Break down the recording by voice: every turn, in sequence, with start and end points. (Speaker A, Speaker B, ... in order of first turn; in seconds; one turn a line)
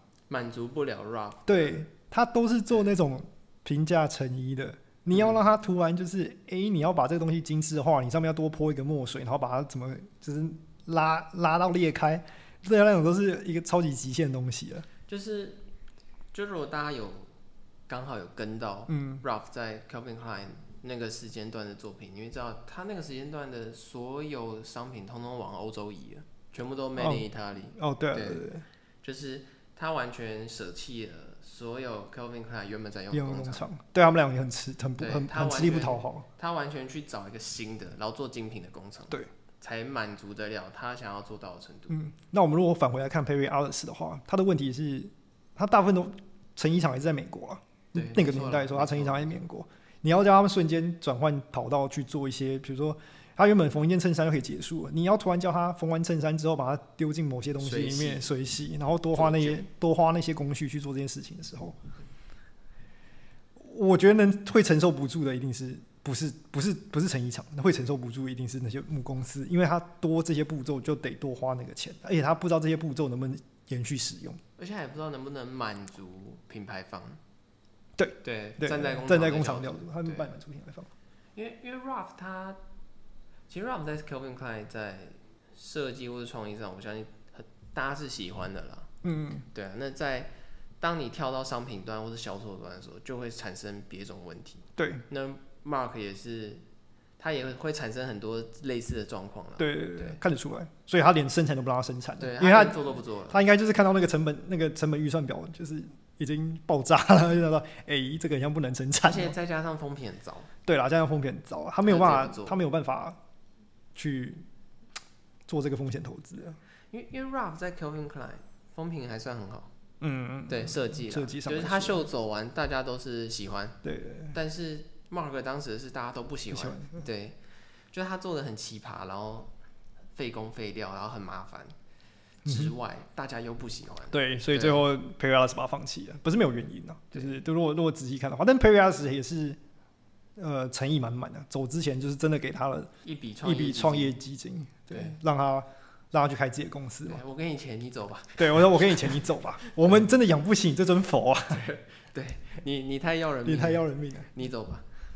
Speaker A: 0.3-1.8
Speaker B: 1.5-14.9
Speaker A: 15.1-15.6
Speaker A: 16.3-17.3
Speaker A: 17.9-28.5
Speaker B: 18.9-19.2
Speaker B: 27.0-28.6
Speaker A: 29.0-33.7
Speaker B: 33.1-36.3
Speaker A: 35.0-42.0
Speaker B: 41.9-61.8
Speaker A: 47.9-49.4
Speaker A: 57.6-58.3
Speaker A: 59.1-59.6
Speaker B: 63.6-74.4
Speaker A: 74.6-77.2
Speaker B: 78.0-80.9
Speaker A: 78.2-80.3
Speaker A: 81.3-82.6
Speaker A: 83.5-88.9
Speaker B: 89.0-89.5
Speaker A: 89.5-96.6
Speaker B: 94.8-95.0
Speaker A: 97.2-100.2
Speaker B: 99.6-109.4
Speaker A: 102.2-103.4
Speaker A: 109.0-110.5
Speaker B: 110.7-113.2
Speaker A: 111.8-112.6
Speaker B: 114.0-114.5
Speaker B: 115.5-116.6
Speaker A: 116.9-119.7
Speaker B: 120.0-122.1
Speaker A: 120.5-123.8
Speaker B: 123.8-124.4
Speaker A: 124.3-127.4
Speaker B: 126.5-127.0
Speaker A: 127.9-129.5
Speaker A: 130.2-131.8
Speaker A: 132.4-134.9
Speaker B: 132.5-132.7
Speaker B: 134.1-139.6
Speaker B: 140.4-142.9
Speaker A: 143.0-144.2
Speaker B: 143.4-147.2
Speaker A: 144.9-145.2
Speaker A: 147.1-149.2
Speaker B: 148.4-151.7
Speaker A: 151.5-154.9
Speaker B: 153.4-154.3